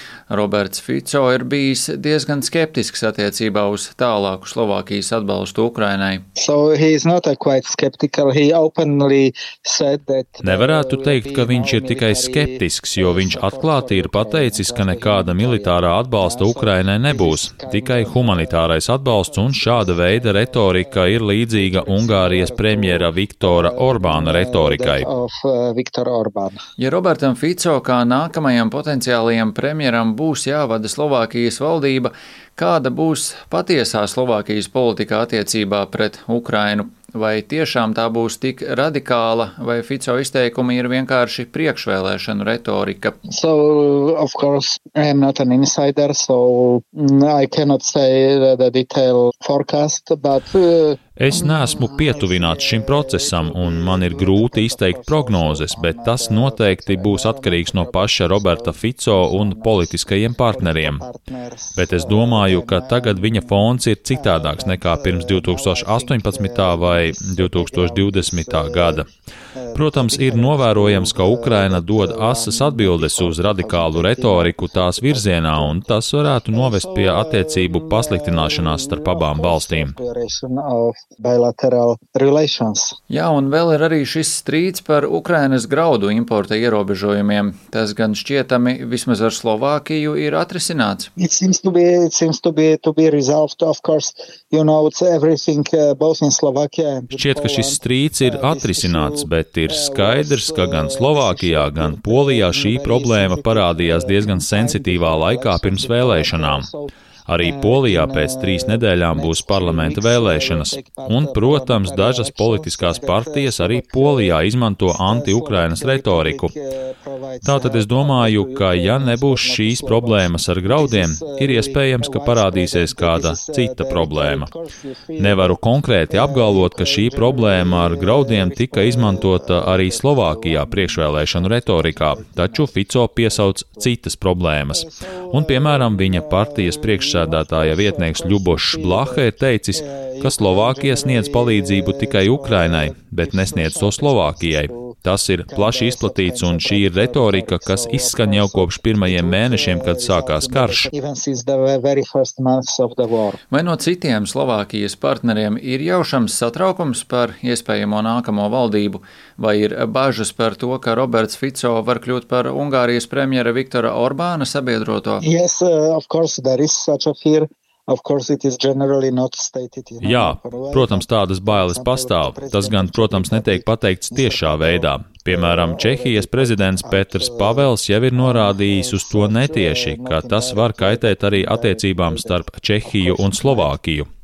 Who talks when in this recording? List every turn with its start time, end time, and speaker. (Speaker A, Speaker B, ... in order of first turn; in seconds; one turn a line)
Speaker A: 0.3-6.2
Speaker B: 6.4-26.6
Speaker C: 10.4-25.1
Speaker A: 26.8-43.1
Speaker B: 43.3-83.0
Speaker C: 51.2-61.0
Speaker C: 61.7-69.0
Speaker C: 69.7-80.0
Speaker A: 83.1-91.1
Speaker B: 91.2-133.9
Speaker C: 97.1-106.7
Speaker C: 107.3-116.5
Speaker C: 117.4-124.5
Speaker C: 125.2-150.9
Speaker B: 134.7-153.4
Speaker A: 153.5-165.2
Speaker B: 165.2-183.8
Speaker C: 170.0-184.1